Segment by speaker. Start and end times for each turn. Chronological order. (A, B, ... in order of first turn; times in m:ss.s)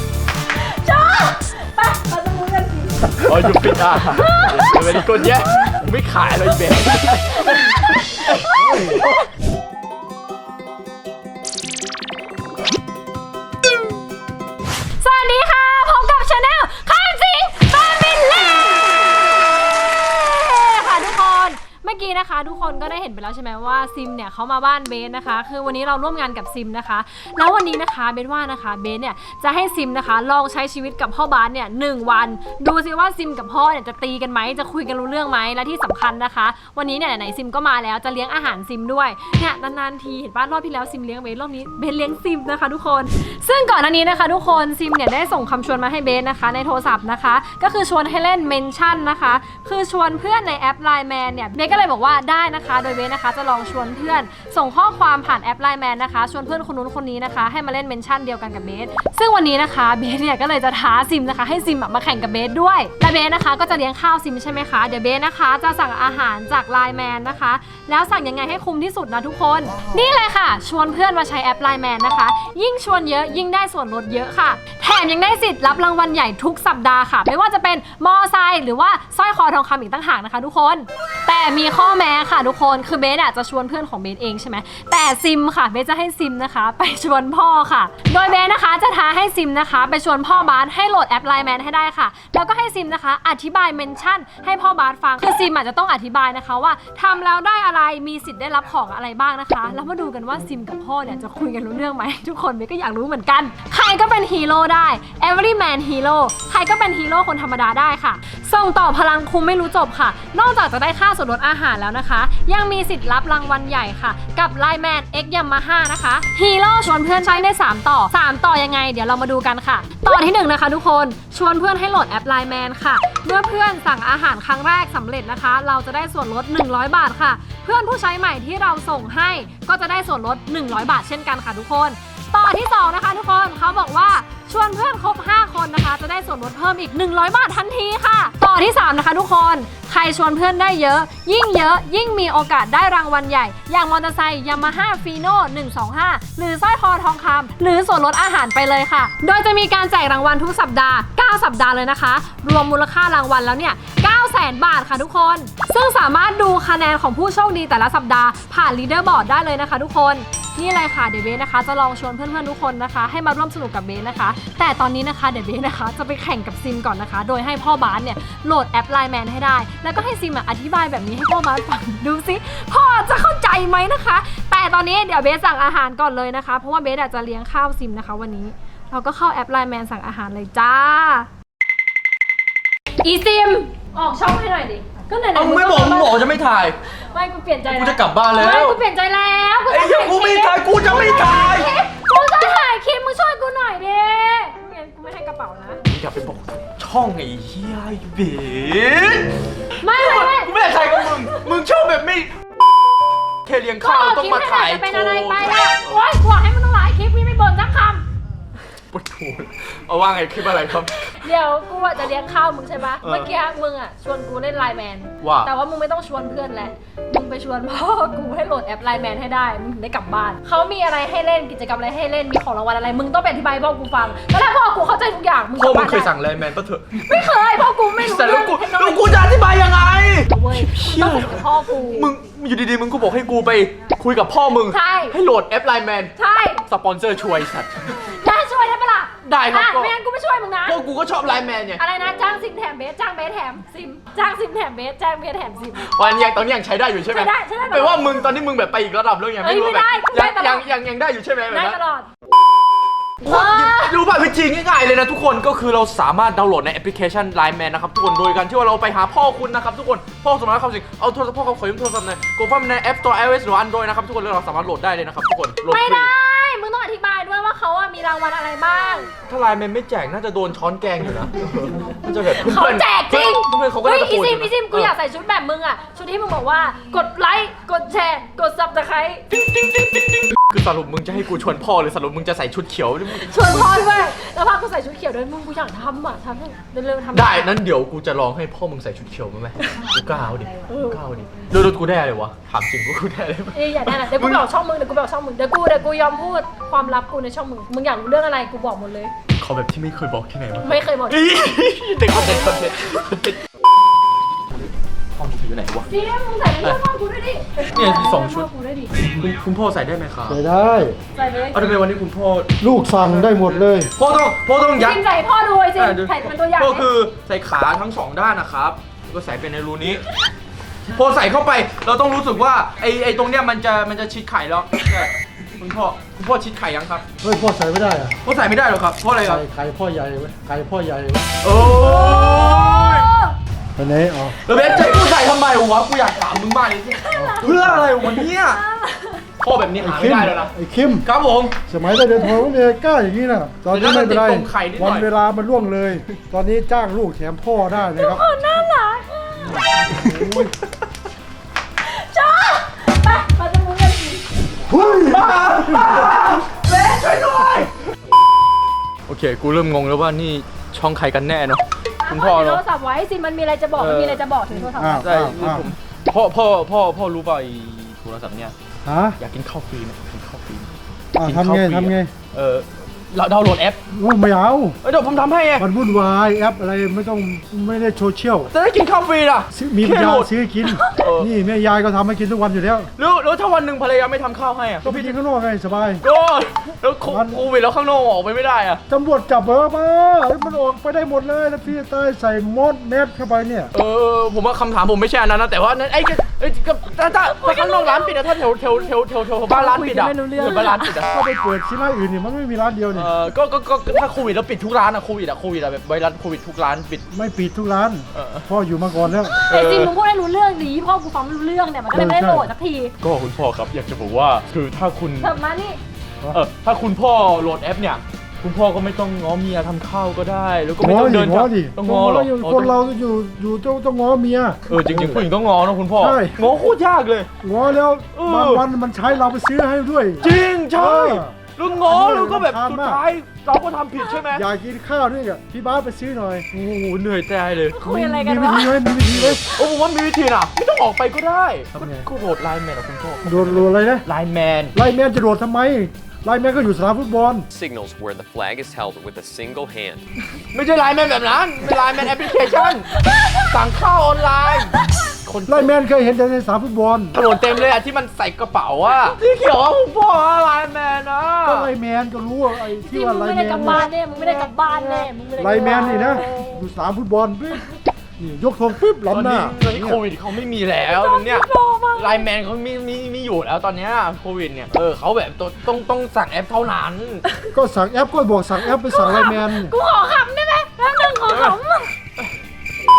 0:00.6-0:03.3 A
0:03.2-0:09.2 B
0:04.0-0:05.6 A
0:07.4-0:09.2 A
0:08.5-0:09.1 C
0:15.0-3:01.3 A
3:03.0-3:06.3 A
3:05.4-3:06.8 B
3:06.9-3:15.8 A
3:07.7-3:08.8 B
3:09.7-3:11.8 B
3:15.9-3:22.3 B
3:19.8-3:21.5 A
3:23.5-3:26.0 B
3:23.8-3:28.0 A
3:28.9-3:31.2 B
3:30.6-3:46.1 A
3:33.0-3:33.3 B
3:35.2-3:35.5 B
3:45.6-3:47.0 B
3:47.1-3:49.4 A
3:47.9-3:56.1 B
3:50.2-3:52.1 A
3:54.7-3:55.2 A
3:56.2-3:56.6 A
3:56.7-3:58.0 B
3:58.1-4:00.8 A
3:59.2-3:59.9 B
4:00.6-4:01.8 B
4:01.8-4:05.9 A
4:05.8-4:11.8 B
4:07.1-4:08.4 A
4:09.4-4:10.7 A
4:11.5-4:12.1 A
4:13.2-4:26.1 B
4:13.2-4:14.0 A
4:25.7-4:29.1 A
4:29.3-4:34.9 B
4:32.3-4:39.2 A
4:39.5-4:43.8 B
4:43.2-4:47.5 A
4:47.1-4:54.4 B
4:50.7-4:51.0 A
4:53.5-4:59.1 A
4:59.4-5:03.4 B
5:00.6-5:01.3 A
5:02.1-5:03.0 A
5:05.2-5:05.9 B
5:05.9-5:08.9 A
5:07.7-5:08.5 B
5:09.0-5:10.4 B
5:10.3-5:11.0 C
5:11.2-5:11.6 A
5:11.5-5:12.6 B
5:12.6-5:13.9 C
5:13.2-5:15.0 B
5:14.8-5:16.9 A
5:15.8-5:20.0 B
5:20.8-5:27.0 B
5:27.2-5:28.2 C
5:28.2-5:29.4 B
5:29.2-5:31.3 C
5:31.4-5:33.1 B
5:31.6-5:33.4 A
5:33.8-5:34.4 C
5:34.4-5:38.6 B
5:37.0-5:37.4 A
5:37.1-5:37.9 C
5:38.4-5:39.2 A
5:39.4-5:40.5 B
5:39.8-5:41.1 C
5:41.0-5:41.6 B
5:41.7-5:48.3 C
5:43.7-5:45.1 B
5:47.9-5:49.7 A
5:49.9-5:50.5 C
5:51.8-5:54.2 A
5:54.7-5:57.7 B
5:54.7-5:55.5 C
5:59.1-6:02.6 B
6:02.0-6:05.1 A
6:03.8-6:08.5 B
6:04.8-6:05.7 C
6:08.8-6:09.2 C
6:09.2-6:13.8 B
6:11.2-6:12.1 C
6:13.9-6:14.8 C
6:14.8-6:15.7 B
6:15.6-6:18.5 C
6:18.5-6:20.3 B
6:19.5-6:22.9 C
6:21.0-6:21.3 B
6:23.0-6:25.2 B
6:24.8-6:26.0 C
6:26.0-6:28.8 B
6:27.0-6:27.4 C
6:28.9-6:33.7 C
6:33.7-6:41.1 B
6:37.4-6:38.9 A
6:39.5-6:40.9 A
6:41.1-6:43.1 C
6:42.9-6:47.0 B
6:47.1-6:49.4 C
6:48.1-6:48.5 B
6:49.3-6:52.9 A
6:49.5-6:49.9 B
6:51.9-6:52.5 C
6:53.0-6:55.3 B
6:55.2-6:55.8 A
6:56.3-7:02.7 B
7:00.8-7:05.2 C
7:04.7-7:07.3 B
7:06.0-7:06.5 C
7:07.4-7:13.0 C
7:08.1-7:08.6 B
7:10.2-7:14.4 B
7:14.3-7:16.5 C
7:16.5-7:17.8 B
7:17.7-7:18.9 A
7:17.8-7:19.4 C
7:19.1-7:24.8 B
7:21.8-7:22.1 C
7:23.2-7:24.1 C
7:24.7-7:27.5 C
7:27.5-7:30.1 D
7:30.5-7:35.7 B
7:32.3-7:33.4 A
7:35.5-7:37.2 C
7:37.1-7:41.7 B
7:41.4-7:47.7 C
7:42.8-7:46.6 A
7:48.2-7:50.0 C
7:49.1-7:57.2 B
7:50.9-7:52.3 A
7:57.5-7:59.8 C
7:58.9-8:01.9 A
8:01.3-8:01.6 B